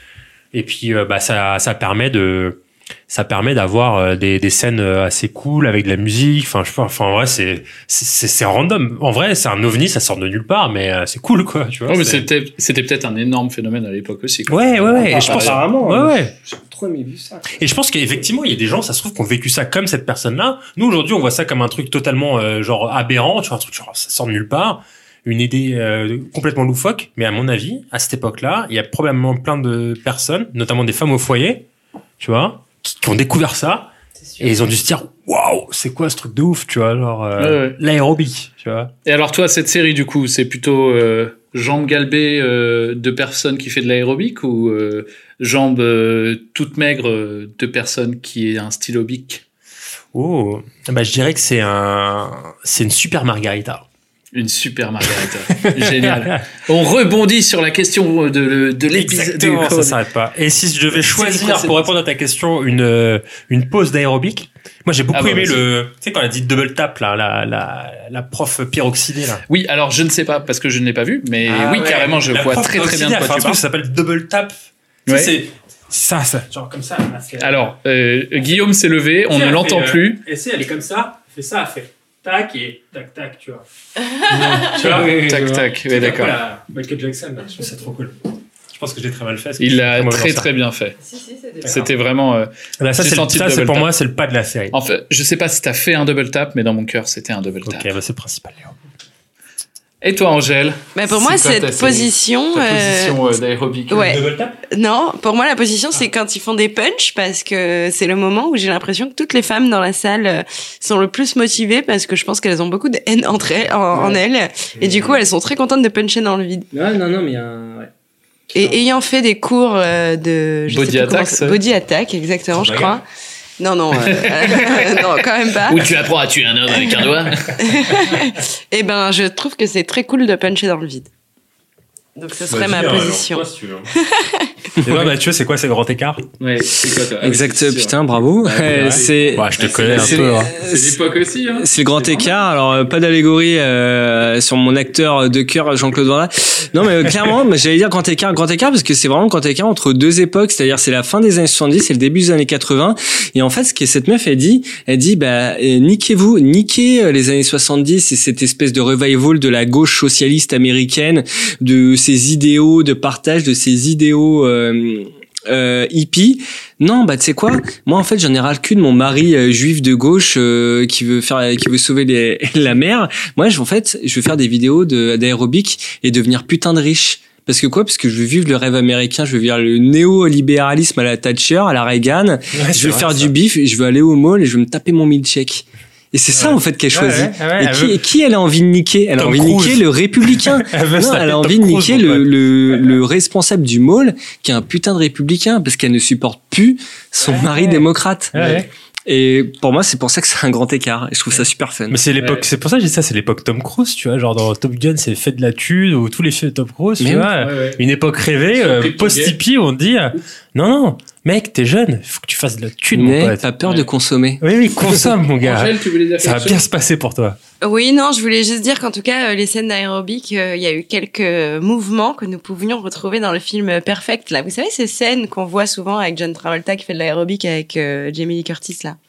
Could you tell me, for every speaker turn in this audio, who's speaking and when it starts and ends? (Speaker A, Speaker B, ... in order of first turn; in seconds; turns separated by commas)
Speaker A: 0.5-12.3, Speaker B: 11.9-15.6, Speaker A: 14.5-16.3, Speaker C: 14.9-17.6, Speaker A: 17.6-31.7, Speaker A: 32.2-38.9, Speaker B: 37.4-37.8, Speaker B: 39.0-49.4, Speaker A: 50.1-53.9, Speaker B: 54.3-60.0, Speaker A: 55.6-56.4, Speaker A: 58.9-69.4, Speaker B: 61.2-61.7, Speaker B: 65.1-65.7, Speaker B: 69.5-73.6, Speaker A: 71.5-74.5, Speaker B: 75.1-75.3, Speaker A: 75.1-77.6, Speaker B: 77.4-80.2, Speaker A: 79.3-83.6, Speaker A: 84.3-88.2, Speaker C: 84.5-85.6, Speaker B: 85.2-86.4, Speaker A: 88.7-90.5, Speaker B: 89.6-91.0, Speaker D: 91.0-91.7, Speaker B: 91.7-93.9, Speaker A: 92.8-94.8, Speaker B: 94.7-97.9, Speaker A: 97.7-98.8, Speaker B: 100.0-104.2, Speaker D: 101.0-103.2, Speaker D: 103.9-116.7, Speaker A: 103.9-104.6, Speaker C: 113.9-114.2, Speaker A: 114.8-115.1, Speaker C: 116.7-117.9, Speaker D: 118.5-123.0, Speaker B: 120.7-121.6, Speaker A: 122.5-123.0, Speaker D: 123.6-126.0, Speaker B: 124.1-124.7, Speaker B: 125.7-127.6, Speaker D: 127.6-131.1, Speaker D: 132.2-134.5, Speaker A: 132.5-133.9, Speaker A: 134.8-136.3, Speaker B: 136.4-142.2, Speaker C: 137.2-141.0, Speaker A: 138.7-140.5, Speaker C: 141.6-202.0, Speaker A: 182.6-183.3, Speaker A: 186.3-188.0, Speaker A: 189.2-192.9, Speaker A: 198.3-198.7, Speaker A: 201.9-213.4, Speaker B: 202.2-202.4, Speaker C: 207.0-207.3, Speaker B: 207.4-207.8, Speaker B: 208.6-209.4, Speaker C: 212.9-215.2, Speaker A: 214.4-217.4, Speaker B: 215.4-216.6, Speaker D: 217.6-229.0